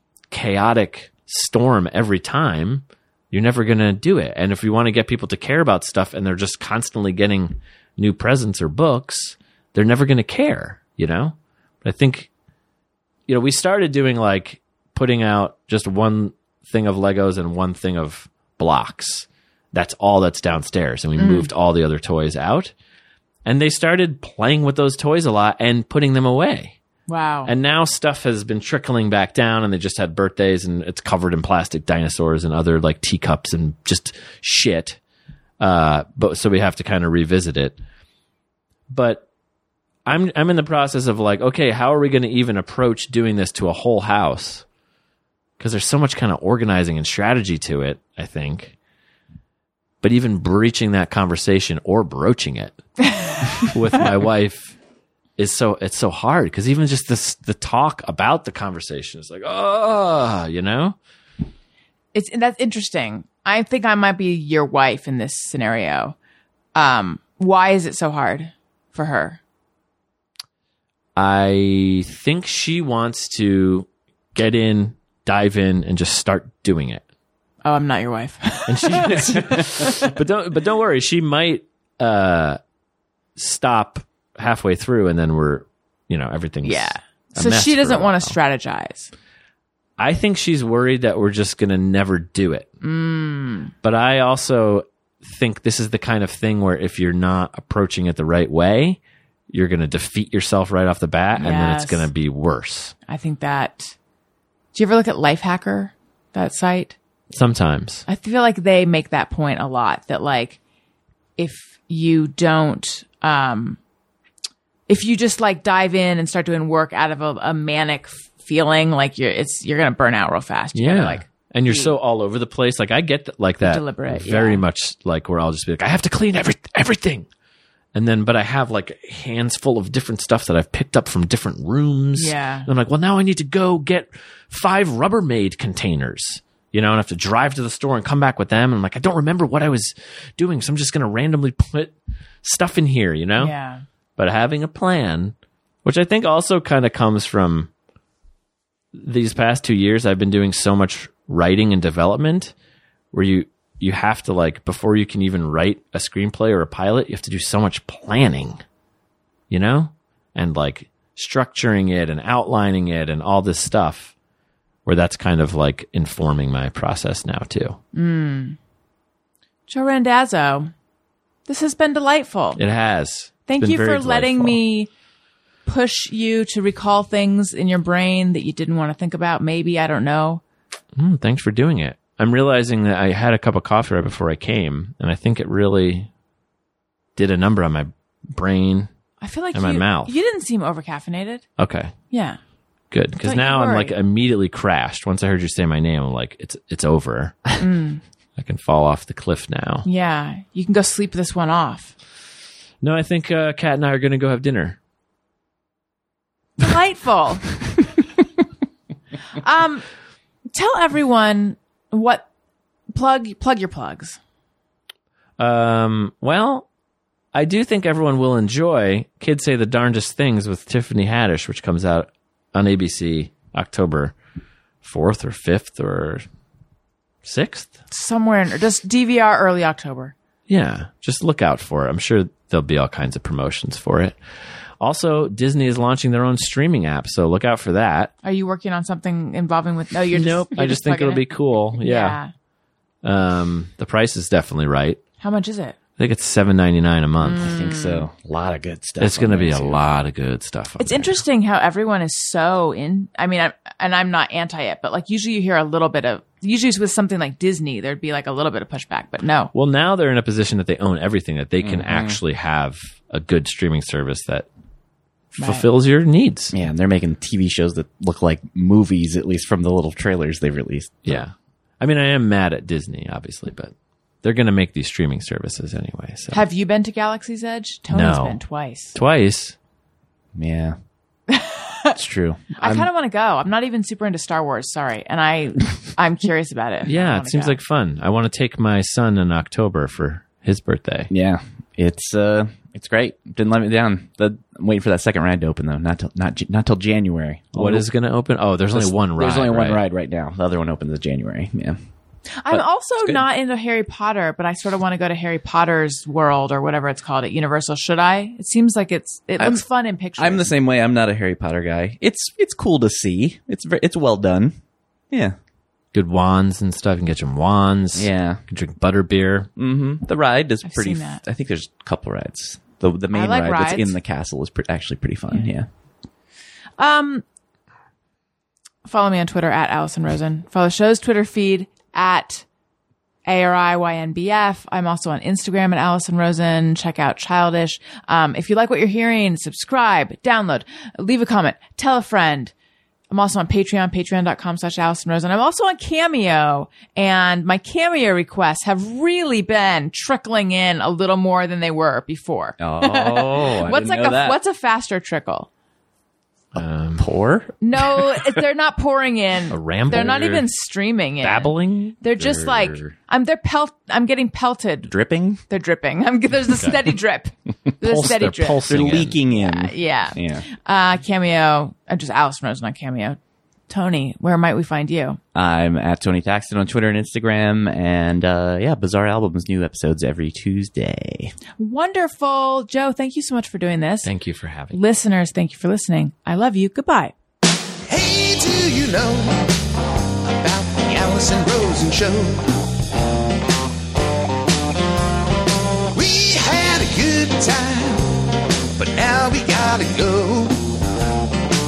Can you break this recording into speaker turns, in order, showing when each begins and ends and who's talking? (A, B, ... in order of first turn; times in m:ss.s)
0:00.3-0:12.3 A
0:13.3-0:22.7 A
0:21.2-0:21.5 B
0:23.4-0:26.8 A
0:27.1-0:27.5 B
0:27.4-0:35.0 A
0:35.6-0:37.8 A
0:38.9-0:39.2 A
0:40.0-0:44.6 A
0:45.6-0:48.7 A
0:50.0-0:52.8 A
0:53.1-0:53.4 B
0:53.5-0:54.8 A
0:55.4-1:01.0 A
1:02.1-1:06.2 B
1:06.7-1:09.4 B
1:11.2-1:17.0 A
1:17.6-1:20.1 B
1:18.7-1:22.6 A
1:23.4-1:28.4 A
1:26.6-1:29.1 B
1:30.0-1:32.7 A
1:32.8-1:33.7 B
1:33.8-1:39.0 A
1:39.5-1:42.9 A
1:41.4-1:42.1 B
1:43.1-1:43.9 B
1:44.7-1:47.0 B
1:47.3-1:48.0 A
1:48.1-1:50.6 B
1:51.4-1:53.8 B
1:54.9-2:01.9 B
2:00.7-2:07.2 A
2:03.6-2:04.6 B
2:07.9-2:23.5 A
2:12.2-2:12.7 B
2:23.4-2:23.8 B
2:24.2-2:27.7 A
2:28.9-2:32.5 A
2:33.1-2:38.6 A
2:39.5-2:44.1 A
2:44.8-2:47.8 A
2:47.9-2:48.6 B
2:49.7-2:50.7 B
2:51.5-2:52.6 B
2:52.6-2:54.6 A
2:53.5-2:54.9 B
2:55.6-3:00.4 B
3:01.0-3:06.1 A
3:07.2-3:08.9 A
3:09.2-3:11.4 B
3:09.5-3:10.1 A
3:11.6-3:11.9 A
3:12.1-3:12.4 B
3:12.9-3:17.6 A
3:13.2-3:14.0 B
3:17.6-3:18.0 B
3:18.4-3:19.9 A
3:19.8-3:21.9 B
3:22.8-3:24.8 A
3:26.6-3:27.6 B
3:29.3-3:29.8 B
3:30.5-3:32.3 B
3:32.9-3:34.2 B
3:35.4-3:36.7 A
3:37.3-3:44.2 A
3:44.8-3:46.2 A
3:47.2-3:47.7 A
3:47.9-3:50.1 B
3:50.5-3:54.2 A
3:54.8-3:58.1 A
3:58.2-4:01.2 B
4:00.1-4:02.2 A
4:01.8-4:02.3 B
4:03.0-4:05.0 A
4:05.2-4:05.8 B
4:06.0-4:07.6 A
4:07.2-4:08.1 B
4:07.4-4:09.8 C
4:09.0-4:11.2 A
4:10.8-4:19.5 B
4:19.5-4:24.5 A
4:21.6-4:22.2 C
4:25.3-4:26.5 A
4:25.4-4:25.6 B
4:26.5-4:31.2 C
4:31.0-4:36.4 A
4:36.3-4:39.0 B
4:37.9-4:38.4 A
4:38.9-4:39.5 A
4:40.3-4:40.8 C
4:41.3-4:42.0 B
4:41.9-4:42.9 C
4:42.6-4:47.6 B
4:46.8-4:51.1 A
4:51.1-4:57.8 C
4:57.5-4:59.8 A
4:58.7-5:01.8 C
5:02.3-5:10.5 B
5:02.5-5:03.2 C
5:09.4-5:09.6 C
5:10.2-5:14.6 C
5:15.9-5:19.5 A
5:18.0-5:18.4 C
5:19.6-5:25.7 C
5:20.6-5:21.2 B
5:23.1-5:24.0 B
5:26.8-5:27.2 B
5:28.8-5:32.4 B
5:33.2-5:42.5 B
5:43.1-5:55.5 B
5:52.6-5:54.4 C
5:56.5-5:57.1 A
5:57.0-5:57.6 C
5:57.6-6:04.9 B
5:59.5-6:00.5 A
6:01.2-6:02.9 A
6:04.9-6:05.4 C
6:05.5-6:13.2 B
6:07.8-6:09.2 A
6:08.7-6:10.4 C
6:13.7-6:15.2 B
6:15.3-6:21.3 C
6:21.6-6:24.1 B
6:24.0-6:24.8 A
6:24.7-6:27.1 B
6:27.9-6:29.5 D
6:30.2-6:32.5 D
6:35.9-6:38.0 D
6:38.8-6:40.6 D